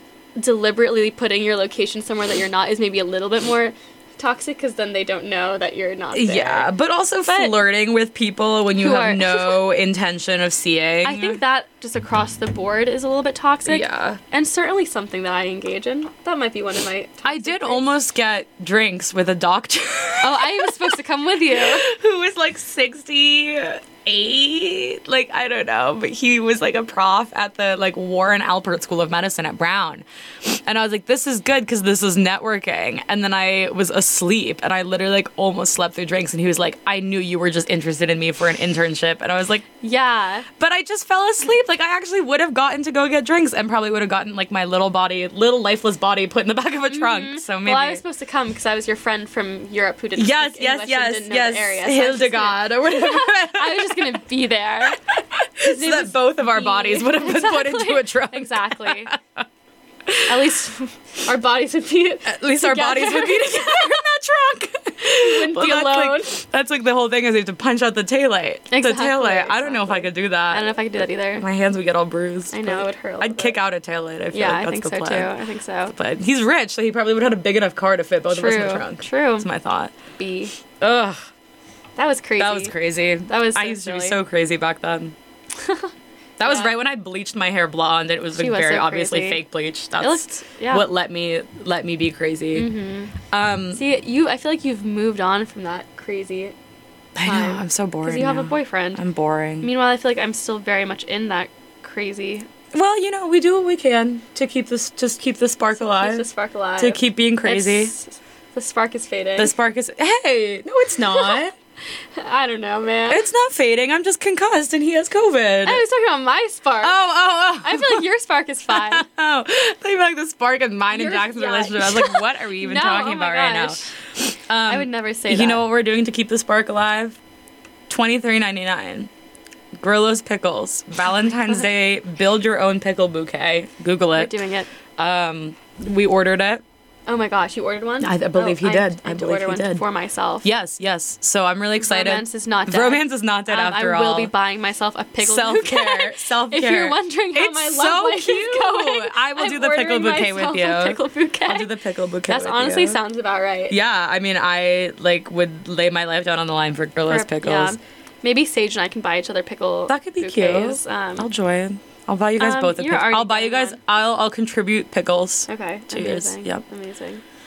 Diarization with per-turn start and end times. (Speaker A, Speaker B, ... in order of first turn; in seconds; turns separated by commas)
Speaker A: 0.4-6.7, Speaker B: 6.1-11.4, Speaker A: 7.3-7.6, Speaker A: 8.8-9.6, Speaker A: 11.0-17.9, Speaker B: 13.7-14.2, Speaker B: 17.2-20.9, Speaker A: 20.2-21.9, Speaker B: 21.4-39.6, Speaker A: 39.8-40.5, Speaker B: 40.6-48.0, Speaker A: 46.9-55.0, Speaker B: 50.1-54.2, Speaker B: 55.1-59.4, Speaker A: 55.6-59.1, Speaker B: 60.1-60.5, Speaker A: 60.2-64.0, Speaker B: 62.2-75.3, Speaker A: 65.1-66.4, Speaker A: 68.7-71.4, Speaker A: 72.5-73.6, Speaker A: 74.3-75.9, Speaker B: 75.9-79.9, Speaker A: 78.3-79.5, Speaker A: 80.2-80.5, Speaker B: 80.7-81.2, Speaker A: 82.0-82.7, Speaker B: 82.4-85.1, Speaker A: 83.3-84.2, Speaker A: 85.6-85.9, Speaker B: 86.4-92.7, Speaker A: 86.4-86.7, Speaker A: 88.4-89.4, Speaker A: 90.0-90.9, Speaker A: 92.5-93.1, Speaker B: 93.3-93.8, Speaker A: 93.7-96.5, Speaker B: 97.2-99.7, Speaker A: 97.2-99.0, Speaker A: 99.6-102.5, Speaker B: 102.7-106.2, Speaker A: 106.0-109.5, Speaker B: 106.8-107.9, Speaker B: 109.4-111.5, Speaker A: 112.2-113.2, Speaker B: 113.1-115.8, Speaker A: 115.6-117.0, Speaker B: 116.8-118.1, Speaker A: 117.6-119.0, Speaker B: 118.7-127.2, Speaker A: 120.9-123.9, Speaker A: 124.7-125.7, Speaker B: 127.9-129.1, Speaker B: 129.7-134.4, Speaker A: 134.2-134.7, Speaker B: 135.0-136.6, Speaker A: 137.1-140.5, Speaker B: 138.0-139.8, Speaker B: 140.4-144.3, Speaker A: 141.8-151.7, Speaker B: 145.2-153.0, Speaker A: 152.2-153.8, Speaker B: 153.7-157.8, Speaker A: 157.1-161.3, Speaker B: 159.9-166.6, Speaker A: 162.4-163.8, Speaker A: 165.5-167.2